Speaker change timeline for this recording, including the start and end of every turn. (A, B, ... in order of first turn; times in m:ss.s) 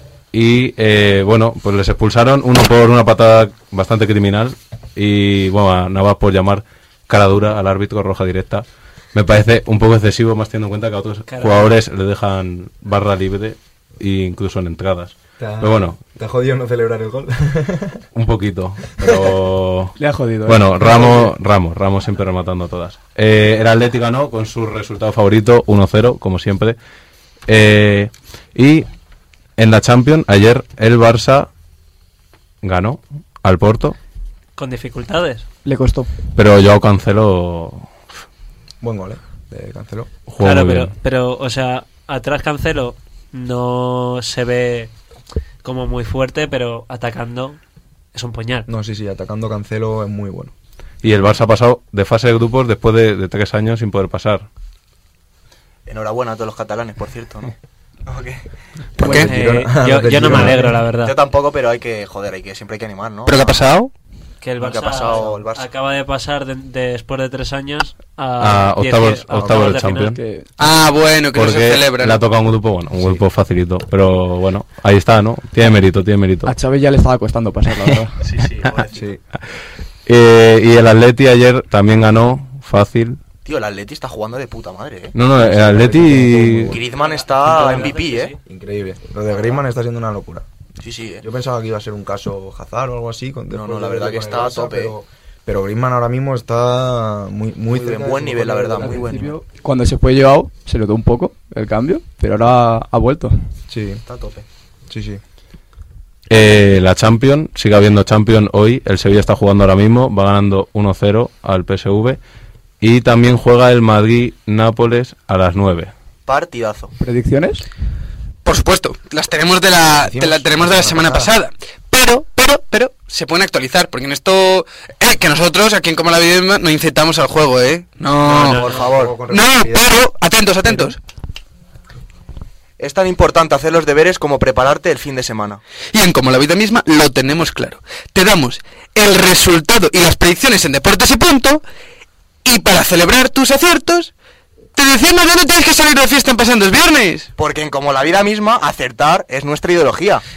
0:00.3-0:16.0 A
0:11.2-0:11.8 B
0:15.4-0:18.0 C
0:18.1-0:26.8 A
0:19.0-0:19.4 C
0:20.0-0:21.3 D
0:27.5-0:28.9 A
0:29.6-0:31.5 A
0:32.6-0:34.0 A
0:34.6-0:35.4 B
0:35.6-0:36.1 D
0:36.3-0:37.9 A
0:38.8-0:40.1 C
0:40.3-0:40.9 A
0:40.4-0:44.9 B
0:45.6-0:47.6 B
0:48.1-0:48.7 B
0:48.7-0:50.5 C
0:51.0-0:54.4 A
0:55.8-0:57.5 E
0:58.0-0:58.4 E
0:59.0-0:59.3 F
0:59.0-1:00.8 C
0:59.0-1:01.2 B
1:01.0-1:03.6 E
1:03.3-1:03.9 F
1:04.4-1:10.2 B
1:04.6-1:05.7 E
1:08.4-1:10.2 A
1:09.4-1:09.7 C
1:10.0-1:10.5 D
1:10.6-1:12.2 F
1:11.3-1:16.5 A
1:16.4-1:18.2 D
1:18.2-1:19.1 E
1:20.0-1:23.2 A
1:23.4-1:25.2 E
1:25.1-1:26.8 A
1:25.4-1:26.8 C
1:26.7-1:28.3 E
1:26.9-1:28.4 B
1:28.4-1:30.4 C
1:30.8-1:31.2 E
1:31.2-1:39.3 C
1:33.5-1:34.9 E
1:37.7-1:39.4 E
1:38.8-1:43.4 D
1:43.7-1:44.0 C
1:44.0-1:44.4 E
1:44.9-1:45.2 C
1:46.3-1:52.2 A
1:52.8-1:55.9 A
1:56.2-1:56.9 E
1:57.0-1:57.6 D
1:58.4-2:08.7 F
1:59.9-2:01.3 C
2:08.2-2:09.2 E
2:08.4-2:08.8 B
2:08.6-2:10.0 C
2:09.3-2:11.0 F
2:12.8-2:15.6 E
2:15.9-2:21.6 F
2:22.4-2:24.1 F
2:24.7-2:27.3 F
2:27.4-2:30.2 E